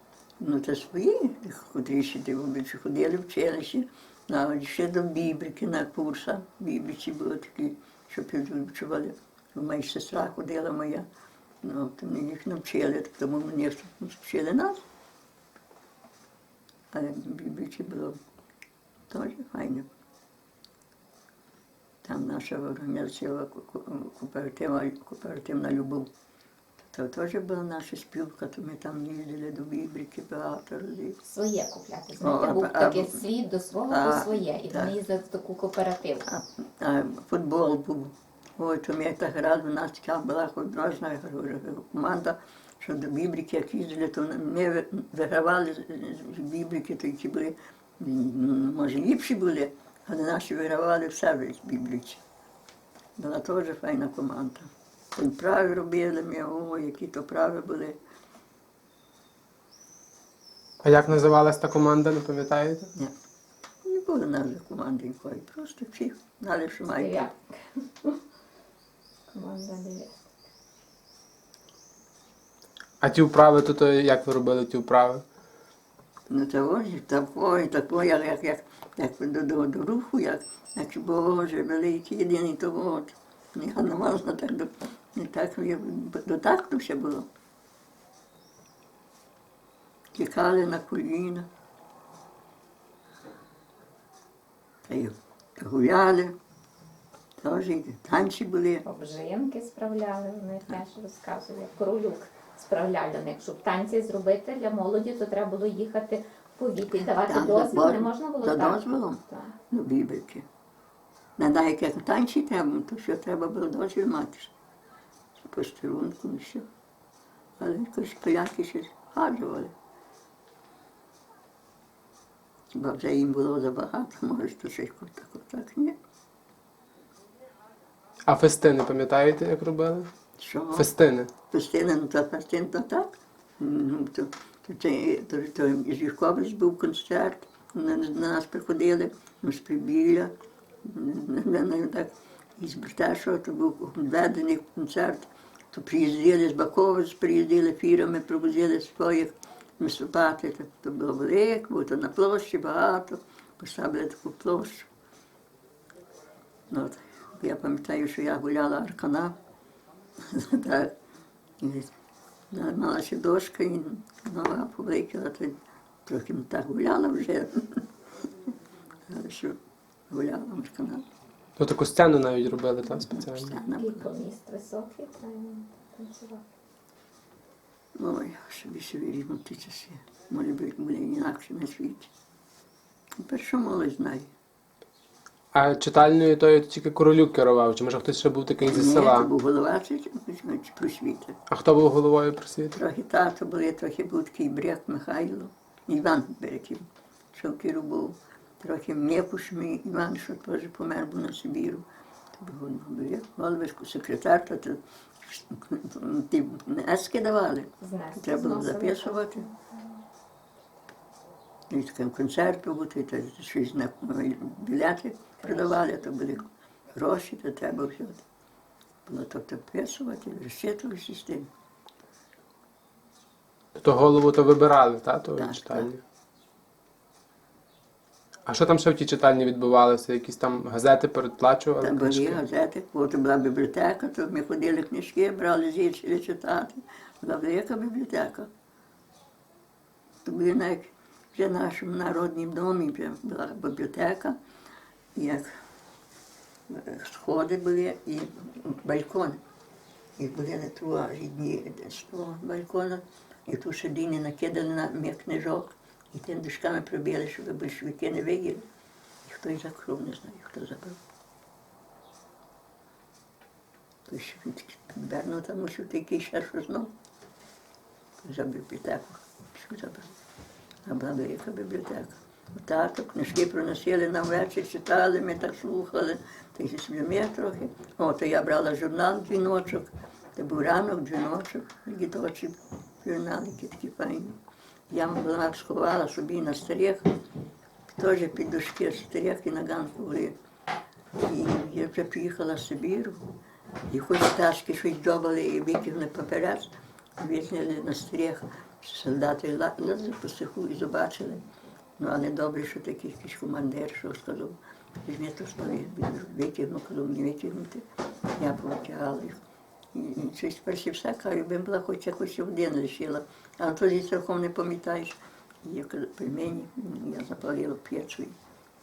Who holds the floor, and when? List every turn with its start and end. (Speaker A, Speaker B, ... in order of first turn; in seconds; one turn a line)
Speaker A: 0.4-11.1
Speaker A: 11.6-14.8
Speaker A: 16.9-18.2
Speaker A: 19.1-19.9
Speaker A: 22.0-26.1
Speaker A: 26.8-31.2
Speaker B: 31.2-36.3
Speaker A: 32.2-33.2
Speaker A: 33.9-35.0
Speaker A: 36.3-52.2
Speaker A: 53.2-58.0
Speaker C: 60.8-62.9
Speaker A: 63.8-67.3
Speaker B: 66.9-68.2
Speaker B: 69.3-70.2
Speaker C: 73.0-75.2
Speaker A: 76.3-87.3
Speaker A: 90.2-91.5
Speaker A: 94.8-96.3
Speaker A: 97.4-98.8
Speaker B: 98.8-109.5
Speaker A: 107.2-110.5
Speaker A: 111.4-114.5
Speaker A: 115.4-116.7
Speaker A: 117.6-119.7
Speaker A: 122.7-126.0
Speaker C: 128.3-130.1
Speaker A: 130.4-130.9
Speaker C: 130.8-131.3
Speaker A: 131.5-140.3
Speaker A: 140.8-154.9
Speaker A: 156.7-159.4
Speaker A: 160.2-160.9
Speaker A: 161.6-161.9
Speaker A: 162.5-167.8
Speaker A: 169.1-169.6
Speaker A: 170.1-171.0
Speaker C: 171.6-173.6
Speaker A: 173.1-174.1
Speaker B: 173.6-176.4
Speaker A: 178.0-182.1
Speaker A: 183.2-184.3
Speaker C: 185.5-189.3
Speaker A: 188.6-191.4
Speaker C: 191.5-192.8
Speaker A: 192.7-209.5
Speaker B: 207.8-210.0
Speaker A: 211.7-218.2
Speaker B: 215.4-215.9
Speaker A: 219.1-221.5
Speaker C: 223.8-226.0
Speaker A: 225.4-225.9
Speaker C: 228.5-232.4
Speaker A: 231.8-238.5
Speaker A: 240.2-244.4
Speaker A: 245.2-245.5
Speaker A: 246.7-249.4
Speaker A: 250.2-258.6
Speaker A: 259.2-261.0
Speaker A: 264.1-266.9
Speaker A: 268.2-270.1
Speaker A: 270.9-284.4
Speaker A: 284.9-287.1
Speaker A: 287.9-290.4
Speaker A: 291.2-293.2
Speaker A: 293.9-301.4
Speaker A: 302.0-307.9
Speaker A: 308.4-309.4
Speaker A: 309.9-318.4